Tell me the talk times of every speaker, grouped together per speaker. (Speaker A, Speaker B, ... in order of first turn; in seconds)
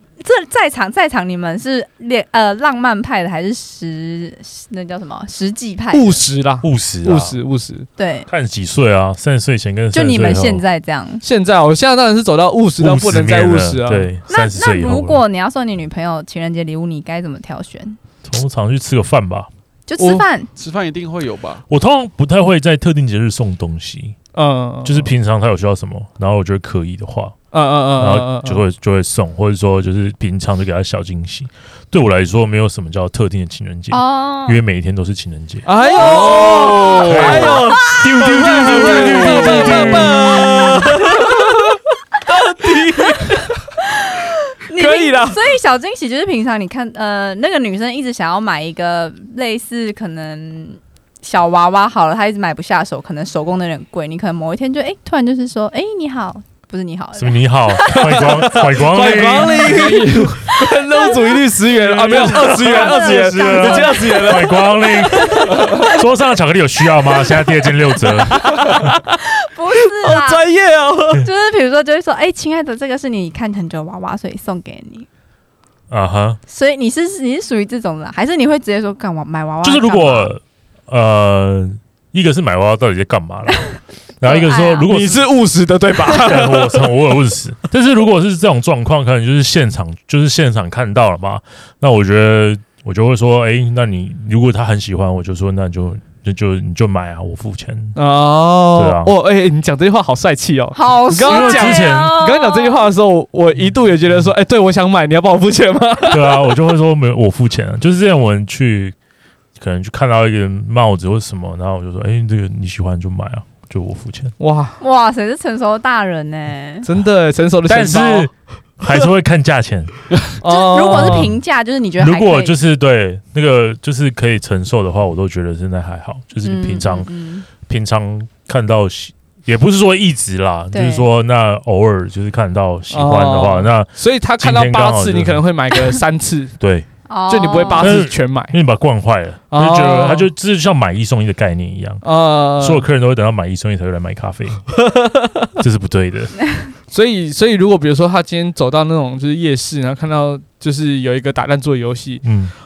Speaker A: 0.2-6.2, 8.0-8.3, 9.9-11.2, 14.3-18.0, 19.9-20.5, 33.9-34.6, 35.8-38.0, 39.3-41.5, 42.6-58.5, 60.4-61.5, 62.1-64.4, 69.2-70.4, 71.2-75.1, 76.5-80.3, 84.2-84.9, 100.8-102.8, 114.8-116.9, 120.4-122.6, 126.4-127.5, 130.7-131.1, 137.1-138.0
Speaker B: 5.9-7.9, 11.2-14.1, 20.0-20.2, 24.3-25.1, 27.5-28.6, 35.7-43.5, 44.7-45.5, 57.8-66.0, 67.2-71.3, 84.9-86.9, 97.9-106.5, 114.4-114.8, 116.8-118.3, 120.4-121.4, 132.9-136.6, 137.3-138.6, 139.5-140.3, 142.0-142.8, 144.7-145.5, 146.9-152.2
Speaker C: 6.6-7.3, 8.3-10.6, 12.8-15.2, 18.2-19.5, 21.7-24.2, 24.8-27.4, 28.0-40.7, 57.2-59.9, 61.8-68.9, 75.9-76.4, 79.6-85.3, 86.2-98.0, 98.8-99.1, 101.2-102.2, 106.1-108.9, 109.6-114.3, 117.7-119.9, 121.0-121.3, 122.0-135.4, 136.6-136.9, 137.8-142.0, 142.6-144.7, 145.6-146.3, 152.2-152.5
Speaker D: 20.6-21.6, 36.0-37.6, 38.8-39.5, 59.6-60.4, 61.9-63.0, 65.5-65.8